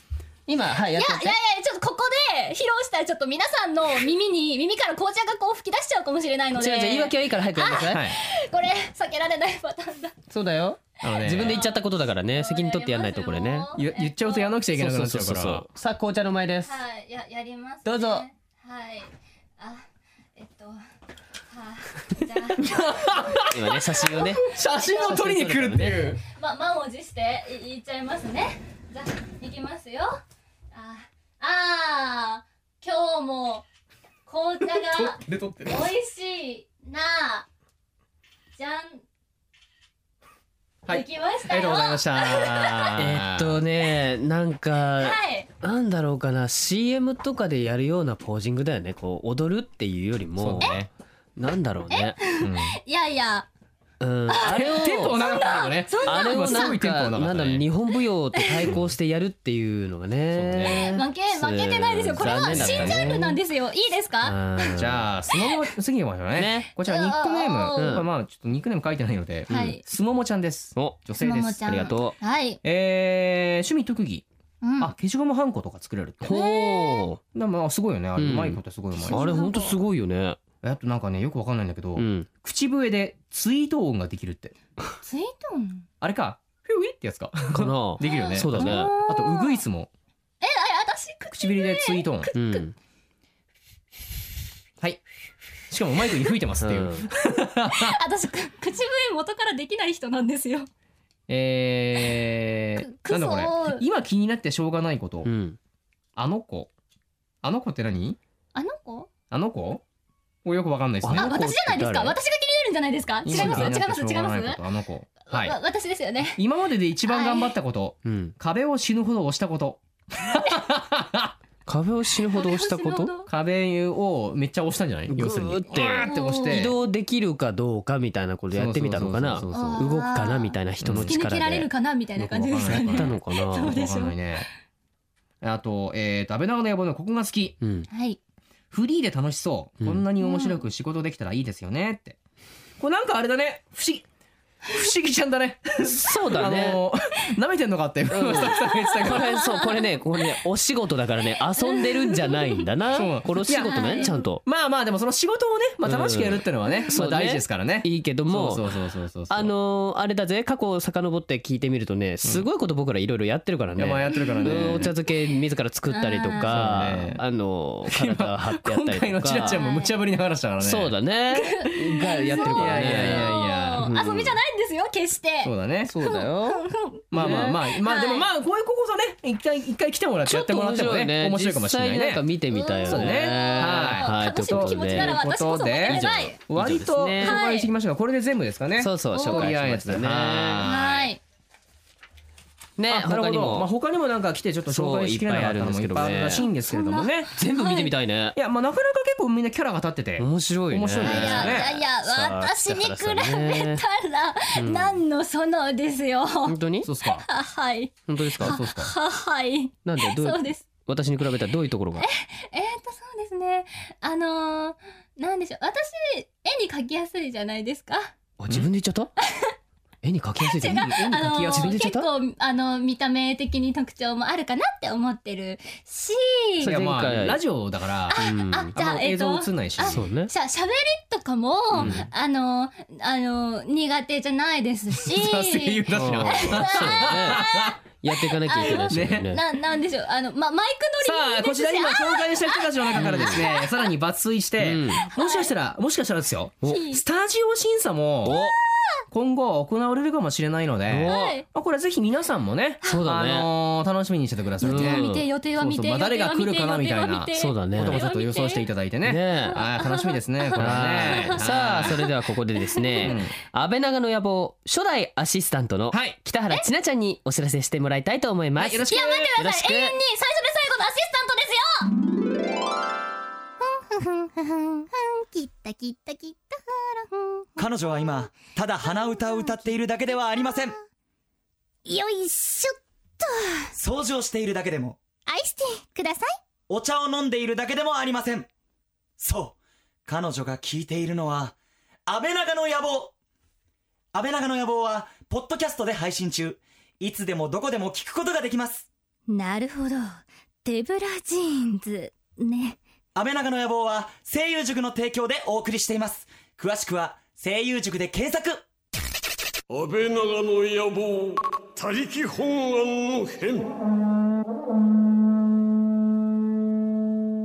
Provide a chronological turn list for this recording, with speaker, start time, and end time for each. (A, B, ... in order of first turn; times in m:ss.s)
0:00.5-0:01.4 A
0:00.9-0:10.2 B
0:06.6-0:08.1 A
0:07.8-0:08.2 C
0:10.3-0:13.7 A
0:11.0-0:11.6 C
0:11.1-0:11.8 B
0:12.3-0:14.5 B
0:13.8-0:15.6 C
0:14.7-0:16.8 A
0:16.7-0:19.8 B
0:17.8-0:18.2 A
0:20.4-0:20.8 B
0:21.5-0:25.2 B
0:22.6-0:23.6 C
0:23.5-0:26.1 A
0:24.5-0:26.2 C
0:26.4-0:30.2 B
0:30.7-0:33.6 B
0:34.3-0:37.5 B
0:34.9-0:35.8 C
0:38.6-0:39.0 B
0:40.8-0:43.6 C
0:40.9-0:43.0 B
0:43.0-0:50.8 A
0:45.0-0:45.5 B
0:50.4-0:50.9 C
0:51.4-0:52.2 A
0:51.9-0:53.5 B
0:52.4-0:52.8 C
0:54.0-0:55.2 A
0:54.3-0:56.8 B
0:54.5-0:57.7 C
0:56.0-1:03.4 A
0:58.4-0:58.7 B
0:58.6-0:58.9 C
1:00.3-1:00.9 C
1:00.6-1:04.8 B
1:02.2-1:03.2 C
1:04.2-1:05.1 A
1:04.8-1:11.9 C
1:06.4-1:06.7 A
1:06.8-1:08.0 B
1:07.8-1:08.1 A
1:09.5-1:09.8 A
1:09.5-1:09.8 B
1:10.8-1:12.2 A
1:11.2-1:12.6 B
1:12.6-1:14.3 C
1:14.6-1:14.9 B
1:14.8-1:16.3 C
1:16.2-1:17.2 A
1:16.2-1:17.1 B
1:17.3-1:19.5 C
1:18.2-1:20.4 A
1:19.0-1:19.8 B
1:20.6-1:24.5 C
1:22.0-1:22.3 A
1:25.0-1:25.9 B
1:26.0-1:29.9 C
1:27.5-1:28.9 A
1:28.0-1:29.6 B
1:30.4-1:32.6 B
1:31.3-1:32.3 C
1:32.3-1:32.8 A
1:35.7-1:38.0 C
1:36.6-1:37.1 A
1:37.7-1:40.7 B
1:41.3-1:45.3 C
1:42.8-1:43.8 B
1:45.2-1:45.6 A
1:46.2-1:46.7 C
1:47.4-1:48.2 C
1:48.6-1:49.1 B
1:49.3-1:49.8 C
1:50.4-1:51.3 C
1:51.0-1:52.2 A
1:51.1-1:54.6 B
1:53.3-1:53.8 A
1:53.3-1:55.6 C
1:55.3-1:56.4 B
1:56.4-2:01.3 C
1:57.1-1:57.5 B
1:58.1-1:58.3 A
2:01.7-2:03.1 A
2:02.3-2:03.3 B
2:03.3-2:06.8 C
2:05.1-2:13.8 A
2:05.7-2:06.6 B
2:08.5-2:09.9 C
2:09.5-2:14.2 B
2:10.8-2:11.2 C
2:12.3-2:14.5 C
2:15.4-2:17.6 C
2:17.6-2:17.9 A
2:17.9-2:18.2 B
2:18.7-2:22.2 C
2:20.2-2:20.6 B
2:22.8-2:24.1 C
2:24.6-2:29.3 C
2:25.8-2:26.8 A
2:28.1-2:34.4 A
2:28.6-2:29.8 B
2:31.8-2:32.6 B
2:32.9-2:39.5 C
2:33.7-2:34.2 B
2:35.8-2:38.7 A
2:36.7-2:36.9 B
2:39.3-2:49.6 A
2:43.8-2:44.9 C
2:44.1-2:44.9 B
2:45.9-2:46.7 B
2:46.5-2:47.2 C
2:47.9-2:50.9 C
2:49.5-2:49.9 B
2:50.6-2:54.4 A
2:51.4-2:58.3 B
2:52.4-2:53.8 C
2:55.4-2:55.9 C
2:55.9-2:57.6 A
2:57.1-3:02.2 C
3:00.3-3:05.2 A
3:02.5-3:06.4 B
3:02.9-3:11.1 C
3:05.8-3:07.4 A
3:07.2-3:07.7 B
3:08.8-3:10.7 A
3:09.1-3:09.5 B
3:10.6-3:11.2 B
3:12.8-3:13.7 A
3:12.9-3:17.3 C
3:14.7-3:16.5 A
3:16.4-3:17.9 B
3:17.4-3:18.4 A
3:18.4-3:21.7 C
3:20.2-3:23.8 A
3:21.0-3:26.6 B
3:24.6-3:25.0 A
3:26.4-3:26.9 A
3:26.8-3:27.2 C
3:27.2-3:30.6 B
3:28.1-3:28.6 A
3:28.4-3:28.9 C
3:29.8-3:32.1 A
3:32.0-3:38.1 B
3:38.4-3:39.1 A
3:40.0-3:42.1 A
3:40.5-3:46.7 B
3:40.6-3:41.8 C
3:46.6-3:47.4 A
3:46.6-3:50.0 C
3:48.1-3:57.8 B
3:48.2-3:48.7 A
3:49.8-3:50.3 A
3:51.7-3:52.1 A
3:51.8-3:52.0 C
3:55.0-3:57.8 C
3:55.9-3:57.5 A
3:58.0-3:59.4 A
3:58.4-4:03.9 B
3:58.7-3:59.3 C
4:01.0-4:08.4 C
4:02.9-4:03.5 A
4:04.6-4:05.1 A
4:05.0-4:05.5 B
4:06.6-4:07.0 B
4:08.2-4:08.6 A
4:09.1-4:22.0 C
4:10.9-4:11.4 A
4:11.1-4:11.4 B
4:12.8-4:13.5 A
4:14.6-4:15.3 A
4:14.6-4:18.7 B
4:17.4-4:18.0 A
4:19.0-4:19.6 A
4:19.5-4:22.1 B
4:20.6-4:30.0 A
4:22.7-4:23.1 B
4:23.0-4:23.4 C
4:25.9-4:26.2 C
4:28.6-4:29.3 C
4:28.9-4:32.0 B
4:33.8-4:36.6 D
4:37.1-4:37.4 B
4:37.6-4:40.8 E
4:41.8-4:43.7 D
4:43.8-4:45.0 E
4:45.3-4:46.3 D
4:46.7-4:48.5 E
4:49.2-4:51.6 E
4:52.1-4:53.1 E
4:54.1-4:58.9 E
4:59.3-5:00.1 B
5:00.6-5:02.8 B
5:03.2-5:08.6 E
5:09.7-5:13.7 F